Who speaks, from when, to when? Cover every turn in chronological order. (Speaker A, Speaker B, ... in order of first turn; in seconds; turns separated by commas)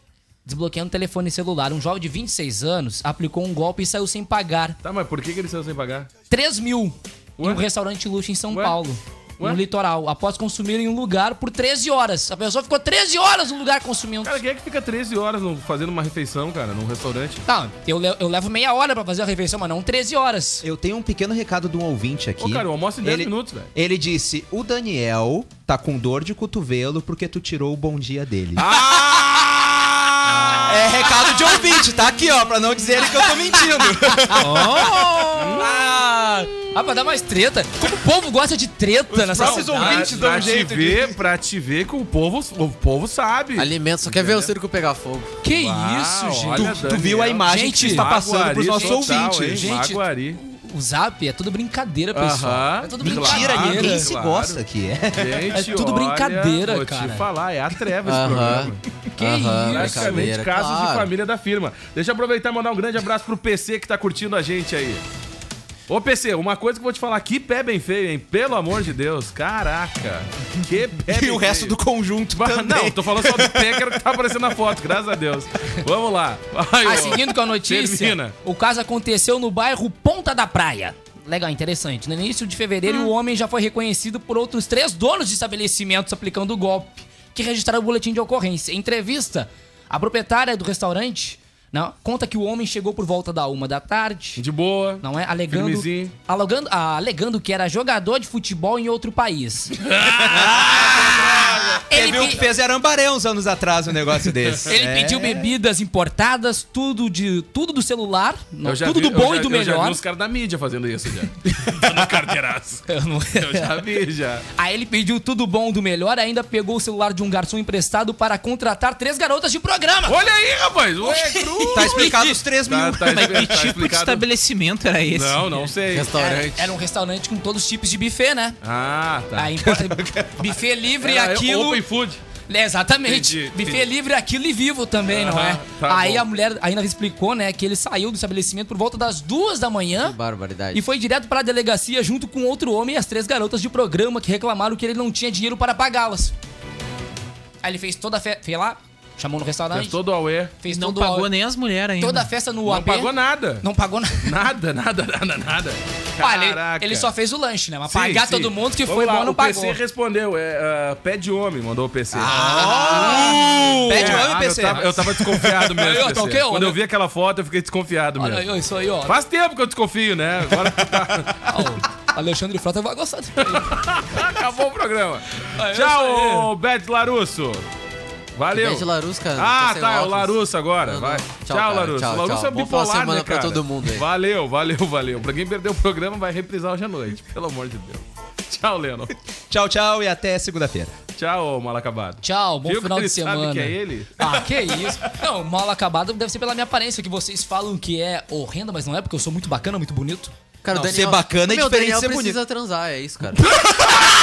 Speaker A: 0.4-4.8, Speaker B: 4.8-6.1, Speaker A: 6.3-14.4, Speaker B: 7.4-7.6, Speaker B: 8.5-8.8, Speaker B: 14.2-17.4, Speaker A: 17.4-20.6, Speaker C: 20.6-28.7, Speaker B: 22.4-23.7, Speaker B: 28.5-31.3, Speaker C: 30.6-34.8, Speaker D: 34.4-35.7, Speaker B: 35.3-35.7, Speaker A: 35.5-40.6, Speaker C: 39.1-41.2, Speaker B: 39.4-44.5, Speaker E: 43.5-45.4, Speaker A: 45.4-48.1, Speaker B: 45.5-50.4, Speaker C: 46.5-49.7, Speaker A: 48.7-54.1, Speaker B: 52.1-54.6, Speaker C: 53.0-55.6, Speaker B: 55.1-58.8, Speaker A: 55.5-57.2, Speaker E: 58.0-61.1, Speaker A: 59.1-60.4, Speaker B: 59.7-65.0, Speaker B: 65.9-71.8, Speaker C: 71.1-73.9, Speaker B: 72.3-78.4, Speaker A: 76.8-94.4, Speaker B: 94.4-96.1, Speaker A: 95.0-99.7, Speaker B: 99.7-102.3, Speaker C: 100.0-105.5, Speaker A: 101.9-102.4, Speaker A: 104.7-110.0, Speaker B: 108.6-114.5, Speaker A: 112.9-114.0, Speaker A: 114.5-120.2, Speaker B: 120.0-124.2, Speaker A: 121.0-122.4, Speaker C: 121.7-123.6, Speaker D: 123.1-125.7, Speaker B: 125.1-126.1, Speaker E: 125.9-126.7, Speaker A: 126.1-128.6, Speaker B: 128.6-130.0, Speaker A: 129.3-131.8, Speaker B: 131.0-132.2, Speaker A: 132.5-140.2, Speaker B: 133.0-133.9, Speaker B: 135.0-136.3, Speaker E: 140.0-140.9, Speaker A: 140.7-146.3, Speaker A: 147.6-150.0, Speaker B: 149.7-150.5, Speaker A: 150.6-151.3, Speaker D: 150.6-152.3, Speaker A: 152.0-154.3, Speaker B: 152.6-153.7, Speaker B: 154.2-157.1, Speaker A: 156.2-159.8, Speaker B: 157.9-171.7, Speaker C: 162.1-165.2, Speaker A: 162.2-166.8, Speaker A: 168.2-169.2, Speaker A: 171.4-173.7, Speaker B: 173.4-177.7, Speaker A: 175.5-176.5, Speaker B: 178.3-189.1, Speaker E: 178.5-184.1, Speaker C: 189.5-190.9, Speaker B: 191.1-194.4, Speaker A: 192.2-200.3, Speaker E: 200.6-203.8, Speaker C: 200.7-202.4